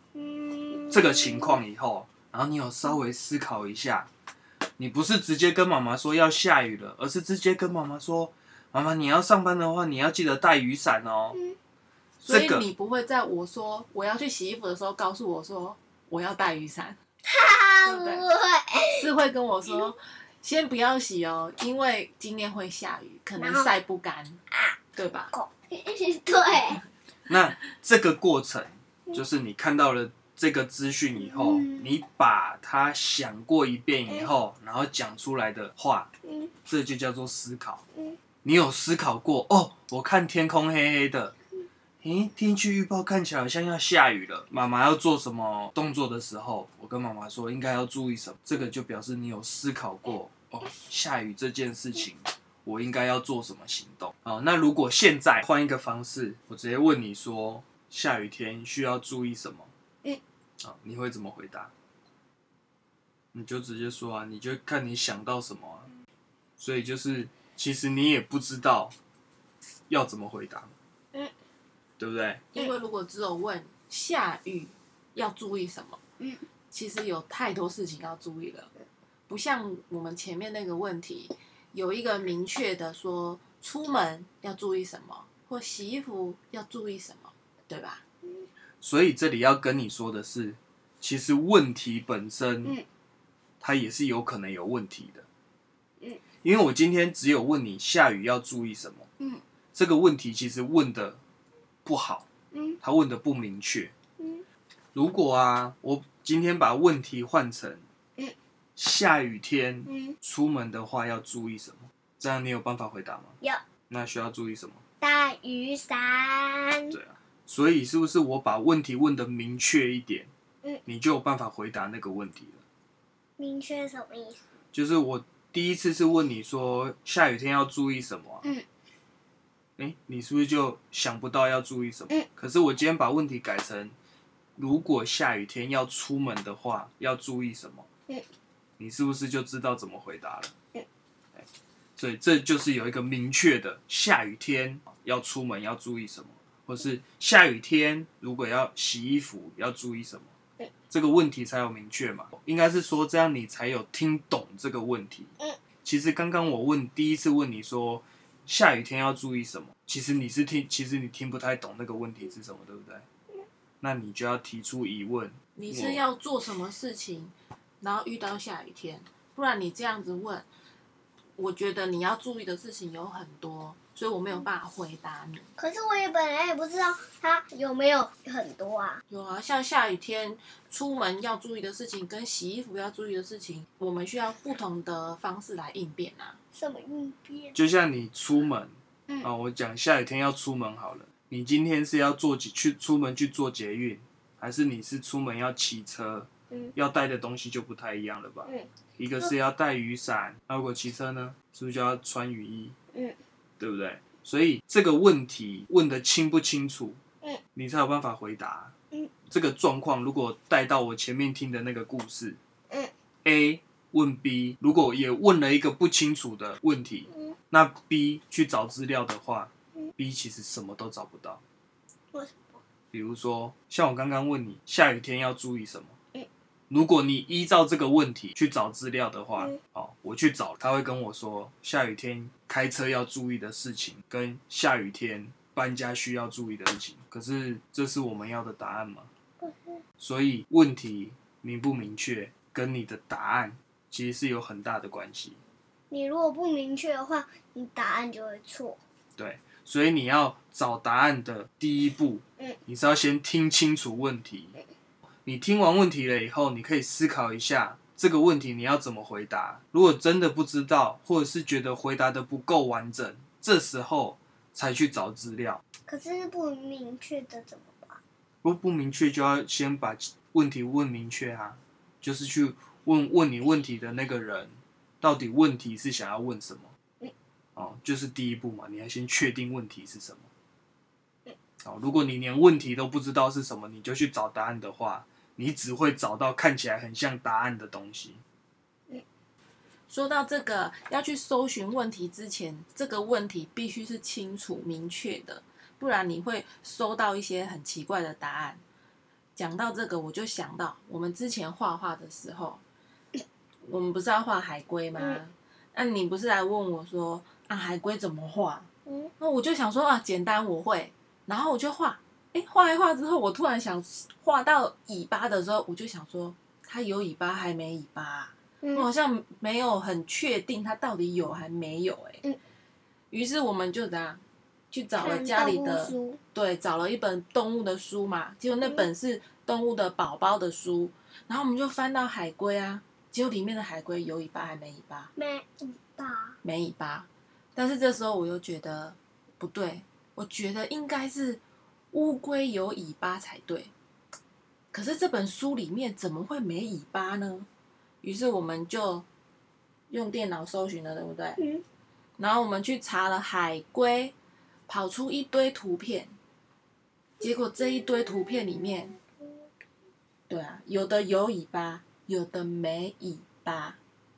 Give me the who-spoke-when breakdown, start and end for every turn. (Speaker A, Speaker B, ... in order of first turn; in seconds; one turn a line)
Speaker A: 0.2-1.6
Speaker B: 0.9-4.1
Speaker B: 4.8-11.4
Speaker B: 12.2-12.7
Speaker C: 12.2-17.0
Speaker A: 17.3-19.1
Speaker C: 17.9-18.2
Speaker C: 18.9-24.4
Speaker A: 23.4-23.7
Speaker C: 24.9-25.3
Speaker A: 25.4-26.8
Speaker B: 27.3-36.1
Speaker A: 31.2-31.9
Speaker A: 36.3-36.5
Speaker B: 36.7-37.8
Speaker B: 38.4-41.4
Speaker B: 42.0-59.7
Speaker B: 60.6-61.7
Speaker B: 63.3-65.9
Speaker B: 66.6-69.0
Speaker B: 69.9-70.7
Speaker B: 72.0-72.5
Speaker C: 72.5-76.0
Speaker C: 76.7-78.7
Speaker C: 79.3-88.0
Speaker B: 88.8-92.8
Speaker B: 93.6-95.3
Speaker B: 96.4-99.1
Speaker B: 99.7-101.2
Speaker B: 101.8-102.3
Speaker B: 102.8-103.9
Speaker B: 105.0-107.8
Speaker B: 108.8-113.4
Speaker A: 109.9-110.1
Speaker B: 113.9-114.8
Speaker A: 115.0-116.9
Speaker B: 116.9-120.3
Speaker B: 120.9-122.6
Speaker A: 123.4-124.4
Speaker B: 124.7-128.5
Speaker B: 129.8-133.9
Speaker B: 134.6-137.9
Speaker B: 138.8-140.5
Speaker B: 142.0-150.3
Speaker B: 150.9-155.3
Speaker B: 155.8-163.1
Speaker B: 163.8-166.0
Speaker C: 165.6-170.5
Speaker C: 171.4-175.5
Speaker A: 175.6-179.0
Speaker C: 179.1-186.4
Speaker A: 186.6-187.5
Speaker B: 187.6-202.8
Speaker B: 203.6-207.0
Speaker B: 207.6-208.7
Speaker B: 209.3-212.4
Speaker B: 213.2-221.4
Speaker A: 222.2-222.5
Speaker B: 222.9-225.9
Speaker B: 226.7-239.1
Speaker A: 239.4-239.8
Speaker B: 240.0-245.4
Speaker A: 245.9-248.8
Speaker B: 249.2-254.6
Speaker B: 255.2-265.6
Speaker A: 265.9-268.0
Speaker B: 268.4-276.7
Speaker B: 277.6-280.3
Speaker B: 281.6-288.2
Speaker C: 289.9-298.6
Speaker C: 299.4-302.6
Speaker C: 303.6-308.7
Speaker C: 309.2-322.2
Speaker C: 323.1-335.1
Speaker A: 324.9-326.2
Speaker A: 335.2-336.4
Speaker C: 336.4-341.4
Speaker C: 341.9-343.7
Speaker C: 344.7-347.5
Speaker C: 348.0-349.1
Speaker C: 349.9-351.4
Speaker C: 352.2-354.1
Speaker C: 354.7-356.1
Speaker C: 357.2-359.0
Speaker C: 360.3-363.8